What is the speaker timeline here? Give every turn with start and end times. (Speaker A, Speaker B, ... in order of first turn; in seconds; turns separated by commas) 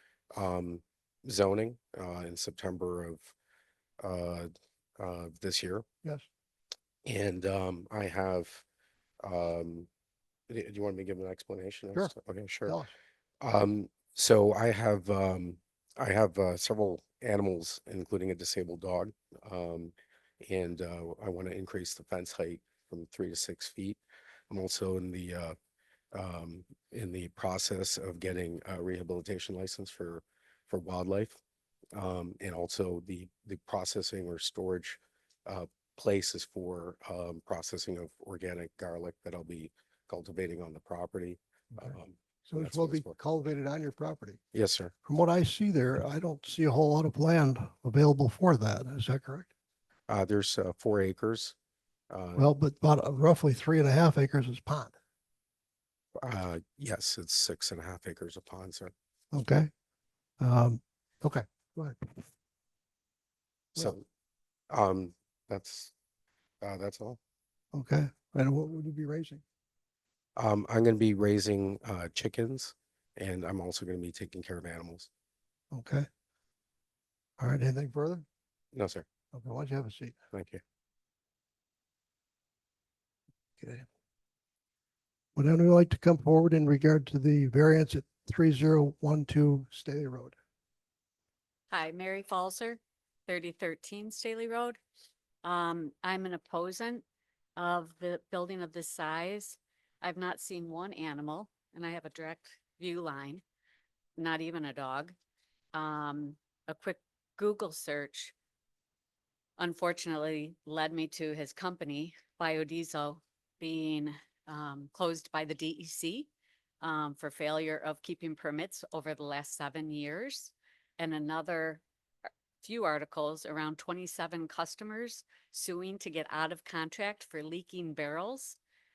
Speaker A: 0.3-3.3, Speaker A: 4.0-5.8, Speaker A: 7.0-8.6, Speaker A: 9.2-9.9, Speaker A: 10.5-12.8, Speaker B: 12.7-12.9, Speaker A: 13.4-25.6, Speaker A: 26.1-31.4, Speaker A: 31.9-43.1, Speaker B: 42.5-44.4, Speaker A: 44.5-44.9, Speaker B: 45.0-49.5, Speaker A: 50.1-51.5, Speaker A: 52.1-52.5, Speaker B: 52.4-54.9, Speaker A: 56.2-58.9, Speaker B: 59.3-59.7, Speaker B: 60.4-62.1, Speaker A: 63.8-64.0, Speaker A: 64.7-65.9, Speaker A: 66.6-67.2, Speaker B: 67.7-69.4, Speaker A: 70.4-75.1, Speaker B: 75.7-76.1, Speaker B: 77.4-78.2, Speaker A: 78.7-79.1, Speaker B: 79.3-80.2, Speaker A: 80.3-80.6, Speaker B: 83.6-83.9, Speaker B: 85.3-90.3, Speaker C: 91.7-94.8, Speaker C: 95.4-97.0, Speaker C: 97.6-103.4, Speaker C: 104.2-105.1, Speaker C: 105.7-108.3, Speaker C: 109.6-116.3, Speaker C: 116.8-121.8, Speaker C: 122.6-128.6